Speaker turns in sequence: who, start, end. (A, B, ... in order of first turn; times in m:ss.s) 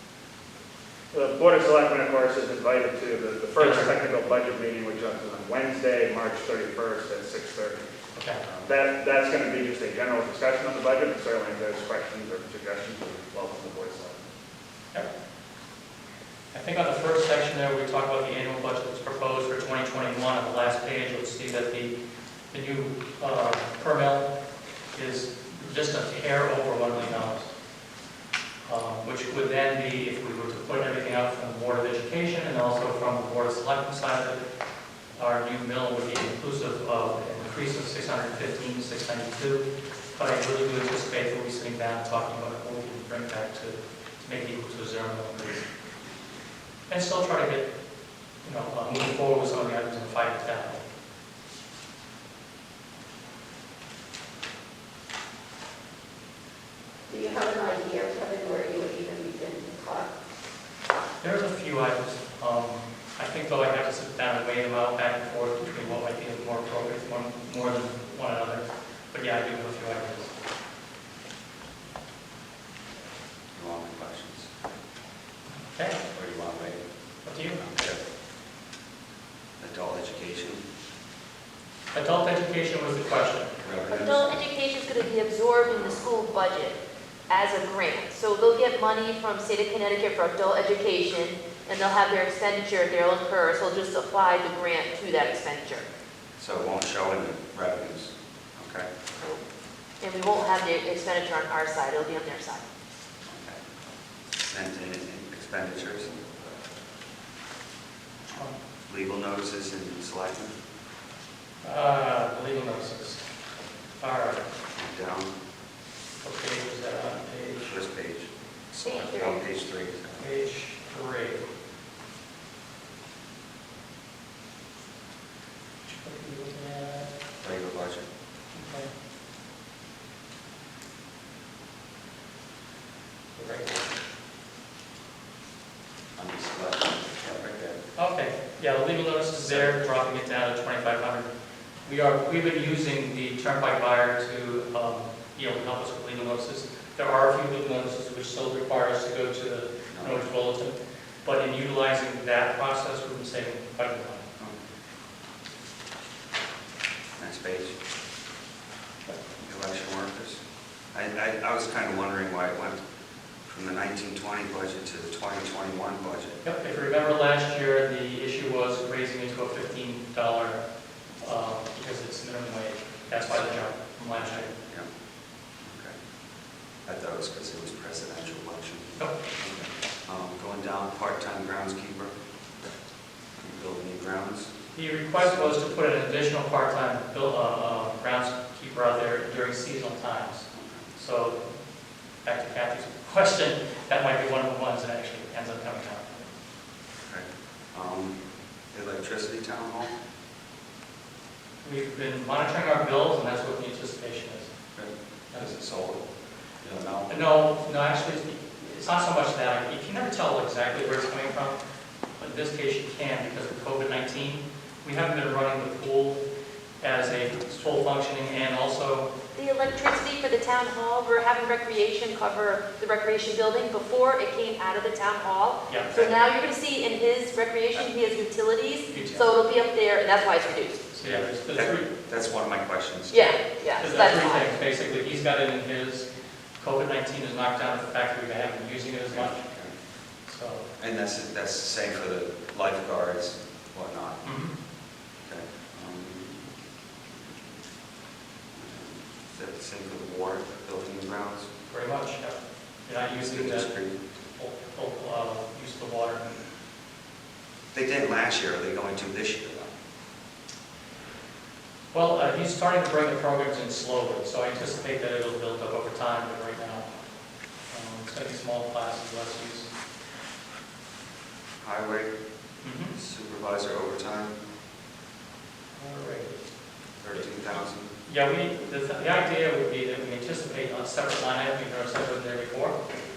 0:01.1-0:07.9 A
0:03.6-0:03.9 B
0:08.2-0:08.4 B
0:08.4-0:14.3 A
0:16.5-0:22.0 B
0:22.5-0:24.3 B
0:25.0-0:27.5 B
0:28.6-0:34.4 B
0:35.2-0:45.7 B
0:46.9-0:47.7 B
0:48.4-0:50.8 B
0:57.1-1:00.1 C
1:01.2-1:10.3 B
1:13.5-1:14.5 D
1:15.7-1:16.0 B
1:16.1-1:16.8 D
1:17.2-1:17.6 B
1:17.6-1:18.0 D
1:19.6-1:20.6 D
1:21.9-1:23.6 B
1:23.6-1:24.4 D
1:23.9-1:26.8 E
1:27.3-1:35.9 E
1:36.4-1:38.9 D
1:40.0-1:42.6 E
1:43.3-1:43.6 D
1:44.5-1:46.2 D
1:48.9-1:50.5 D
1:51.6-1:53.2 B
1:54.0-1:54.5 B
1:54.8-1:55.3 D
1:56.2-1:57.8 B
1:57.7-1:58.3 D
1:58.7-1:59.2 B
1:58.8-1:59.4 E
1:59.1-2:00.2 D
2:00.2-2:01.4 B
2:05.9-2:07.1 B
2:07.4-2:08.1 D
2:08.5-2:08.9 B
2:13.4-2:13.8 B
2:16.2-2:17.8 D
2:18.0-2:21.3 B
2:21.8-2:34.3 B
2:29.9-2:30.2 D
2:37.2-2:37.8 D
2:39.4-2:40.4 D
2:40.9-2:42.8 D
2:43.5-2:46.4 D
2:46.4-2:50.6 B
2:51.2-2:54.5 B
2:53.3-2:53.5 D
2:54.1-2:54.9 D
2:55.6-2:56.0 D
2:56.9-3:02.1 D
3:03.4-3:04.6 D
3:04.7-3:11.5 B
3:05.2-3:05.6 D
3:10.6-3:10.8 D
3:12.2-3:16.2 B
3:17.1-3:18.2 D
3:18.7-3:19.9 D
3:21.6-3:24.5 B
3:24.8-3:26.0 D
3:26.6-3:27.1 D
3:27.1-3:31.6 B
3:32.2-3:36.2 B
3:36.8-3:39.1 B
3:37.2-3:37.8 D
3:39.4-3:50.8 E
3:45.7-3:46.1 B
3:48.9-3:49.3 B
3:50.9-3:51.9 B
3:51.0-3:53.4 D
3:53.1-3:54.5 E
3:53.8-3:56.1 B
3:56.6-3:59.4 B
3:59.1-3:59.8 D
4:00.2-4:00.7 B
4:00.8-4:04.2 D
4:04.2-4:04.5 B
4:05.2-4:06.5 D
4:08.5-4:11.5 D
4:11.7-4:13.7 B
4:13.1-4:14.0 D
4:14.3-4:16.3 B
4:17.7-4:19.7 D
4:21.9-4:26.9 B
4:27.7-4:29.7 B
4:31.6-4:32.1 D
4:32.6-4:33.0 B
4:32.9-4:34.4 D
4:35.8-4:36.4 B
4:37.0-4:37.9 D
4:38.1-4:42.8 B